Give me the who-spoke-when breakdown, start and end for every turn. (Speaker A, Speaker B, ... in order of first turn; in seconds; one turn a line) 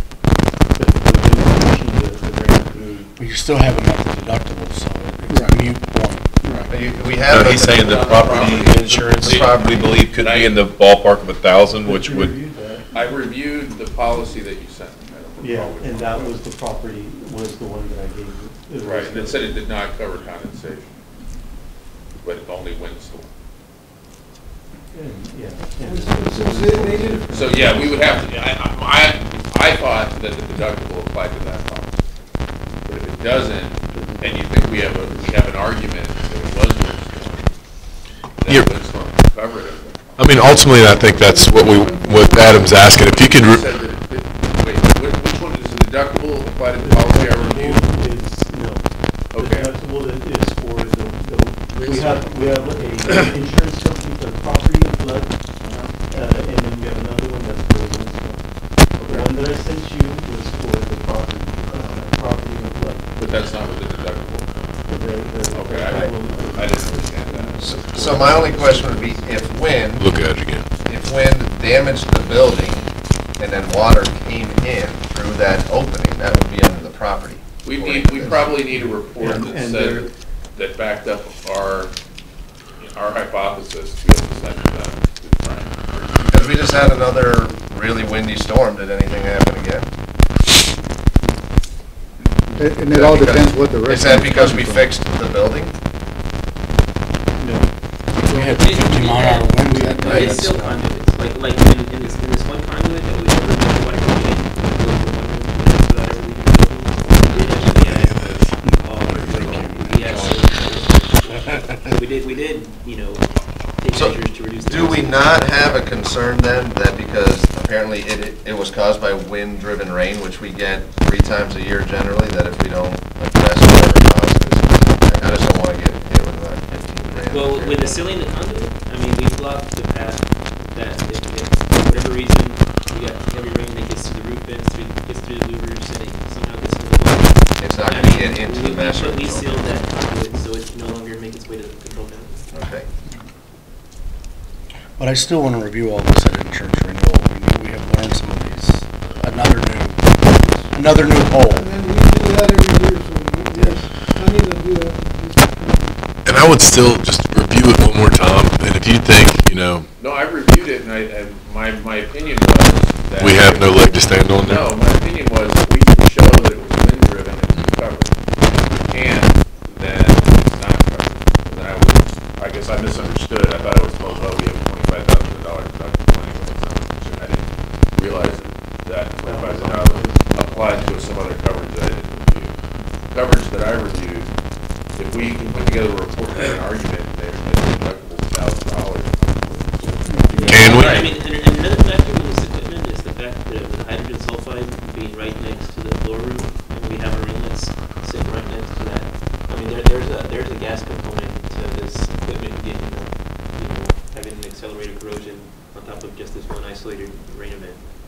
Speaker A: 0.7-3.1
Speaker B: 3.2-6.7
Speaker A: 5.2-5.5
Speaker C: 6.7-8.7
Speaker B: 7.3-12.3
Speaker D: 7.4-10.7
Speaker C: 9.2-9.8
Speaker A: 11.8-12.9
Speaker D: 12.9-16.4
Speaker A: 15.4-19.6
Speaker D: 18.8-21.0
Speaker D: 22.2-23.3
Speaker A: 24.9-28.2
Speaker E: 25.8-27.3
Speaker D: 27.3-32.0
Speaker D: 32.8-37.5
Speaker A: 33.9-35.4
Speaker D: 38.4-40.4
Speaker F: 38.5-38.7
Speaker F: 40.2-43.6
Speaker E: 40.8-42.7
Speaker D: 42.7-47.9
Speaker A: 46.8-55.3
Speaker D: 49.3-49.7
Speaker A: 56.1-58.4
Speaker D: 59.0-59.3
Speaker A: 59.0-63.1
Speaker D: 63.2-64.5
Speaker A: 64.9-69.6
Speaker D: 65.5-68.2
Speaker C: 67.6-70.1
Speaker F: 70.0-70.6
Speaker C: 70.8-72.8
Speaker C: 73.4-78.5
Speaker D: 77.6-81.9
Speaker A: 78.7-80.1
Speaker D: 82.8-86.7
Speaker C: 86.3-89.9
Speaker G: 92.6-94.9
Speaker C: 92.9-95.7
Speaker A: 97.4-97.7
Speaker B: 98.2-100.8
Speaker H: 98.3-113.3
Speaker A: 99.6-100.3
Speaker C: 100.0-100.3
Speaker F: 108.1-108.5
Speaker F: 109.1-110.4
Speaker H: 113.8-115.6
Speaker C: 113.9-128.0
Speaker H: 127.2-142.5
Speaker C: 137.6-139.8
Speaker C: 142.5-142.9
Speaker B: 145.0-151.7
Speaker E: 151.5-156.0
Speaker F: 156.2-159.9
Speaker D: 160.0-182.5
Speaker F: 163.2-164.7
Speaker A: 179.2-180.9
Speaker D: 183.1-184.3
Speaker D: 184.9-191.1
Speaker A: 190.2-190.7
Speaker H: 190.4-207.8
Speaker F: 190.5-191.0